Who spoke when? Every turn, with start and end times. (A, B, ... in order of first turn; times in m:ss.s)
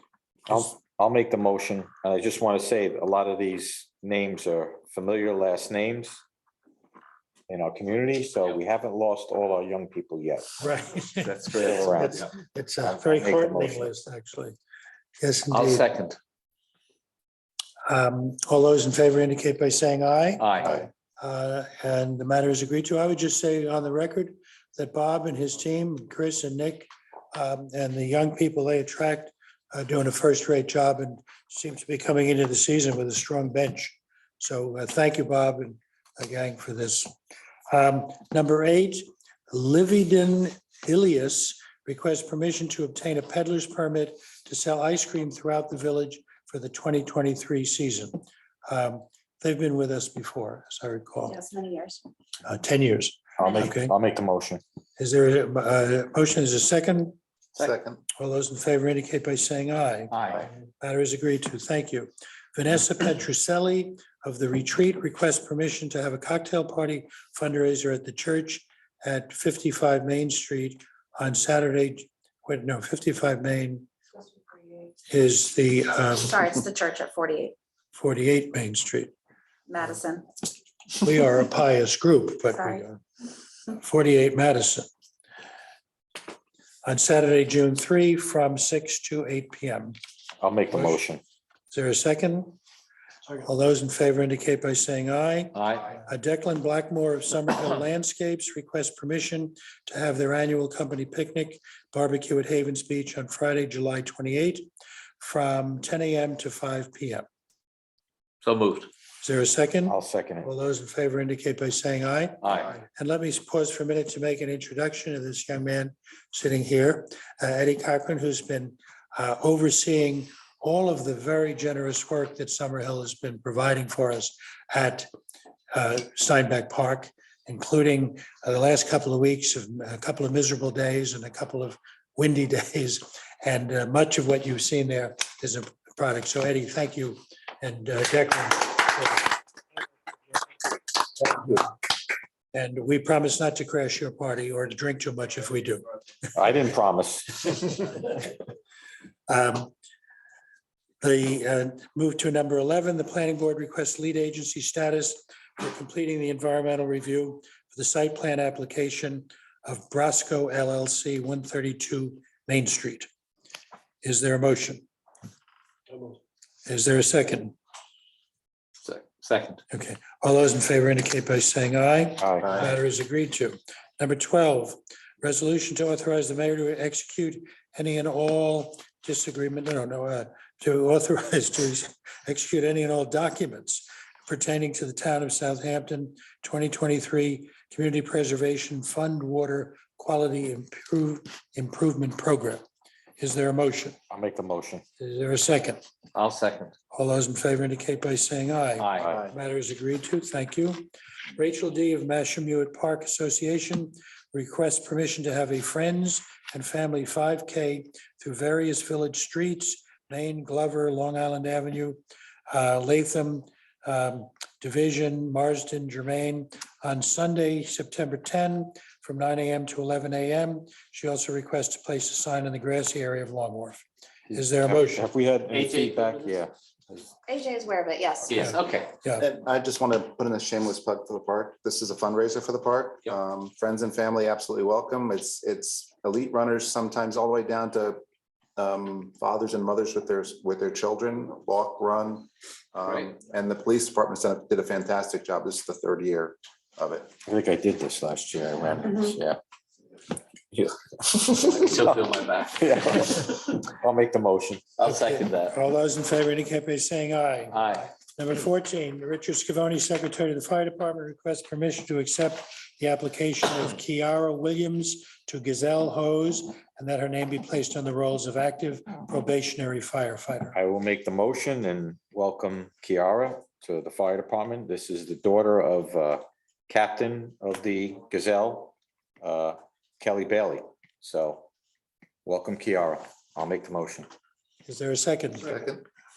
0:00.5-0:06.2 A
0:07.5-0:10.6 A
0:10.6-0:14.6 B
0:11.2-0:12.3 C
0:11.6-0:12.2 A
0:12.8-0:13.9 A
0:15.2-0:15.9 B
0:15.5-0:16.2 C
0:17.9-0:37.1 B
0:20.4-0:20.8 C
0:37.7-0:51.4 B
0:51.2-0:52.0 D
0:52.4-0:54.0 B
0:53.4-0:54.6 A
0:55.0-0:57.2 B
0:57.6-0:58.0 E
0:58.2-1:00.2 B
1:00.1-1:00.5 C
1:00.8-1:13.9 B
1:14.5-1:14.9 D
1:15.1-1:16.6 B
1:16.2-1:17.6 D
1:17.9-1:19.1 B
1:19.7-1:20.3 D
1:21.0-1:23.0 B
1:22.5-1:22.8 D
1:23.7-1:24.9 B
1:26.8-1:30.0 B
1:30.4-1:31.2 A
1:31.7-1:32.6 B
1:33.4-1:44.7 B
1:35.6-1:35.9 C
1:45.2-1:47.3 B
1:48.4-1:48.9 C
1:49.2-2:05.1 B
1:49.9-1:50.5 A
1:52.4-1:52.7 C
2:05.7-2:19.3 B
2:21.2-2:21.7 B
2:22.5-2:25.8 B
2:26.4-2:27.7 A
2:29.3-2:29.7 B
2:31.0-2:43.1 B
2:44.0-2:44.8 B
2:46.7-2:47.6 B
2:48.8-2:49.6 C
2:49.7-3:12.6 B
2:52.2-2:52.5 A
3:13.2-3:14.0 B
3:14.1-3:14.8 A
3:15.0-3:15.8 B
3:16.2-3:16.7 C
3:16.9-3:45.0 B
3:18.8-3:19.2 C
3:19.1-3:19.3 E
3:44.6-3:47.0 A
3:45.5-3:46.3 C
3:47.3-3:48.4 D
3:48.3-3:48.9 C
3:48.4-3:49.3 B
3:49.2-3:58.0 E
3:58.6-4:07.1 E
4:02.8-4:03.1 C
4:07.3-4:09.4 A
4:10.6-4:12.0 A
4:11.3-4:13.1 C
4:12.6-4:14.7 A
4:14.8-4:15.6 C
4:14.8-4:30.6 B
4:17.5-4:17.9 C
4:30.5-4:41.5 A
4:42.2-4:44.1 A
4:44.7-4:45.6 B
4:45.4-4:45.8 E